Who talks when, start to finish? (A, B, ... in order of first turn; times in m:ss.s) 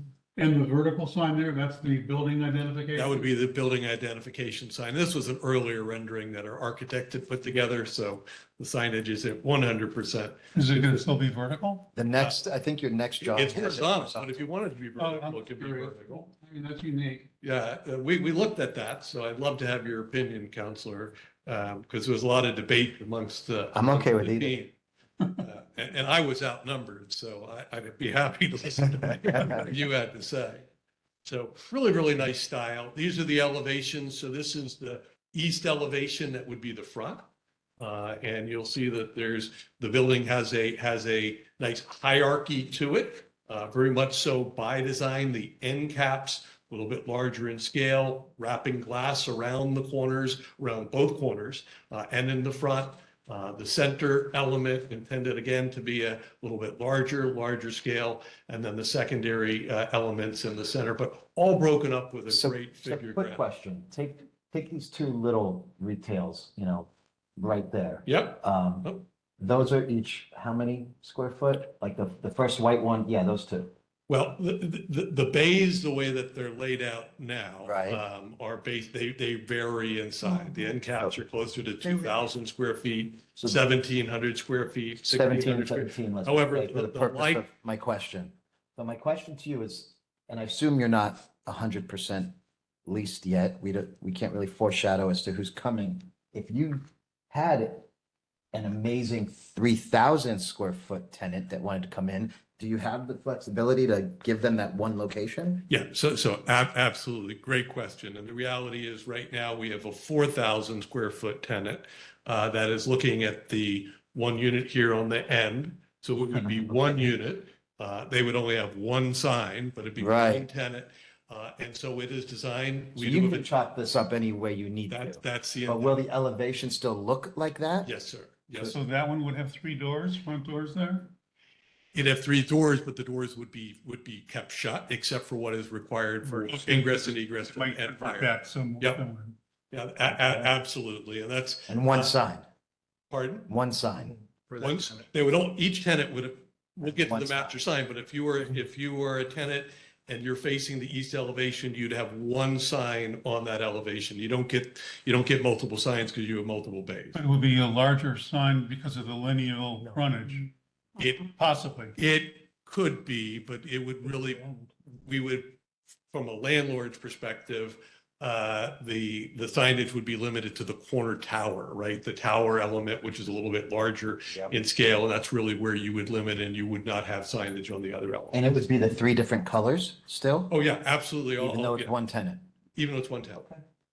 0:00.4-0:03.3 A
0:03.0-0:11.1 B
0:10.6-0:11.9 A
0:12.0-0:14.5 C
0:13.2-0:16.3 B
0:15.0-0:17.3 A
0:17.4-0:24.8 B
0:23.7-0:24.6 C
0:25.4-0:30.7 B
0:31.2-0:37.3 B
0:37.8-1:03.4 B
1:02.3-1:13.7 C
1:08.1-1:09.0 B
1:14.1-1:27.4 B
1:17.6-1:18.0 C
1:25.0-1:32.4 C
1:32.9-1:37.9 C
1:38.5-1:45.7 C
1:45.7-2:03.6 B
1:56.2-1:57.2 C
2:00.0-2:00.5 C
2:03.0-2:07.9 C
2:04.9-2:06.0 B
2:07.8-2:08.8 B
2:08.6-2:11.1 A
2:11.9-2:19.0 B
2:16.3-2:19.4 A
2:19.7-2:22.1 B
2:20.1-2:20.5 C
2:21.7-2:22.4 C
2:23.1-2:23.5 B
2:23.5-2:24.2 C
2:24.6-2:37.2 B
2:26.8-2:27.6 C
2:37.2-2:40.5 A
2:41.0-2:41.3 B
2:41.2-2:42.0 A
2:42.0-2:45.6 B
2:46.1-2:58.5 B
2:54.3-2:54.6 C
2:58.3-3:00.5 C
3:00.5-3:01.9 B
3:01.4-3:02.4 C
3:02.8-3:03.5 B